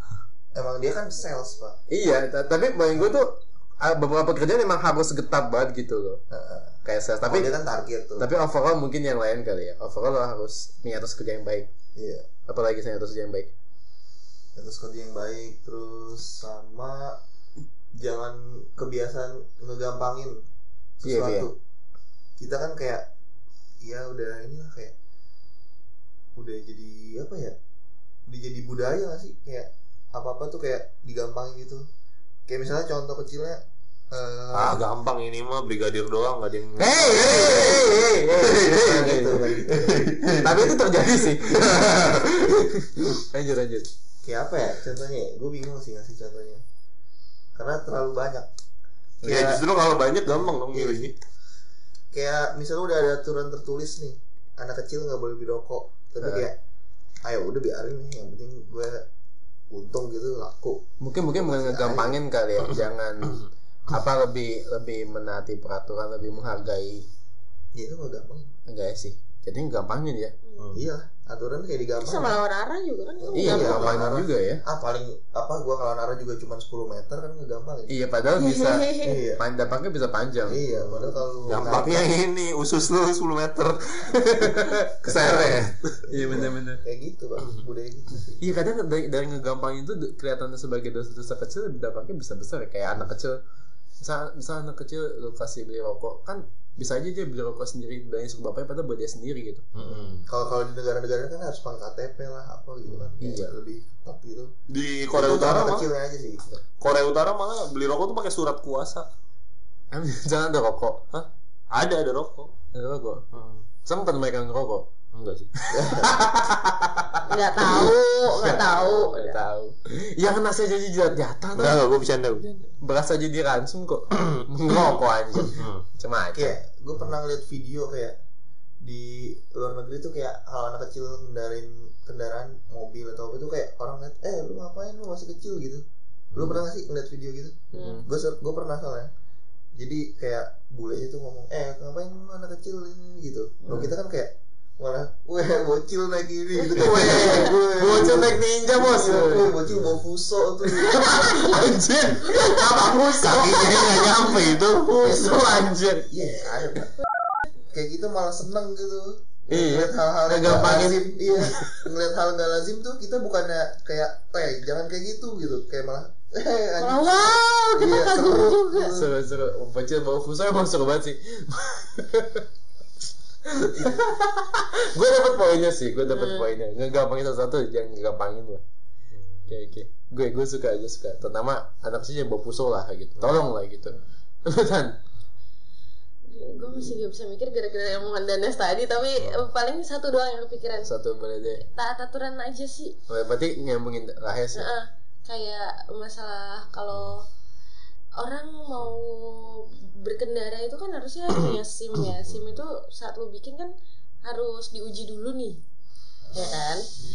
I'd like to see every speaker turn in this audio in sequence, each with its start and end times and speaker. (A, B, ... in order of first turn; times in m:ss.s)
0:00.5-0:01.8 A
0:01.9-0:06.2 B
0:06.3-0:08.3 A
0:06.8-0:07.5 B
0:08.2-0:11.7 B
0:12.0-0:12.3 A
0:12.5-0:13.5 B
0:14.6-0:17.2 A
0:17.9-0:20.4 A
0:21.0-0:21.6 A
0:21.0-0:21.5 B
0:22.4-0:23.1 A
0:23.8-0:24.9 A
0:26.4-0:27.6 A
0:28.3-0:31.8 A
0:32.5-0:34.8 A
0:34.5-0:42.3 C
0:36.8-0:39.5 B
0:37.2-0:37.9 A
0:38.5-0:40.2 A
0:40.4-0:43.9 B
0:44.2-0:46.6 A
0:47.5-0:48.5 A
0:49.2-0:49.6 A
0:49.2-0:51.1 C
0:50.7-0:51.1 A
0:52.1-0:56.6 A
0:56.2-0:56.5 B
0:57.2-0:59.0 A
0:59.7-1:02.2 A
1:01.0-1:07.0 B
1:07.7-1:08.5 A
1:08.7-1:10.3 B
1:10.4-1:10.7 D
1:10.6-1:10.8 C
1:10.7-1:12.4 A
1:12.0-1:14.0 D
1:13.2-1:18.0 A
1:13.3-1:14.6 B
1:17.9-1:20.6 B
1:18.4-1:19.2 D
1:19.0-1:19.4 A
1:20.4-1:22.1 A
1:20.7-1:25.9 C
1:24.3-1:26.8 B
1:25.2-1:25.5 A
1:26.1-1:28.4 A
1:28.4-1:33.4 B
1:34.0-1:39.6 B
1:39.7-1:40.3 C
1:40.1-1:44.5 A
1:43.2-1:43.5 B
1:44.7-1:45.9 C
1:45.1-1:46.4 A
1:46.8-1:49.1 C
1:49.9-1:51.0 B
1:51.1-1:52.5 C
1:52.7-1:53.2 B
1:53.3-1:53.6 C
1:53.8-1:54.9 B
1:55.1-1:55.5 C
1:55.6-2:01.8 B
1:55.7-1:56.2 A
1:57.3-1:59.4 D
2:01.5-2:02.7 C
2:02.8-2:06.6 B
2:04.1-2:04.4 C
2:05.5-2:05.8 C
2:06.3-2:08.2 A
2:08.8-2:15.8 A
2:16.3-2:16.6 C
2:16.3-2:19.1 A
2:17.7-2:18.0 D
2:17.7-2:18.1 B
2:19.7-2:31.7 A
2:26.8-2:29.5 B
2:26.8-2:27.1 C
2:27.1-2:27.4 D
2:30.6-2:36.1 B
2:33.1-2:35.2 C
2:35.2-2:36.9 A
2:37.7-2:49.1 A
2:39.5-2:41.8 B
2:46.8-2:48.9 D
2:48.9-2:52.4 B
2:53.5-2:58.6 B
2:56.1-2:56.5 D
2:59.5-3:05.0 B
3:06.3-3:10.9 D
3:09.2-3:09.4 C
3:10.8-3:11.6 B
3:11.6-3:13.0 D
3:13.1-3:14.7 B
3:14.5-3:17.3 D
3:16.9-3:17.2 C
3:18.2-3:25.6 D
3:26.3-3:26.9 D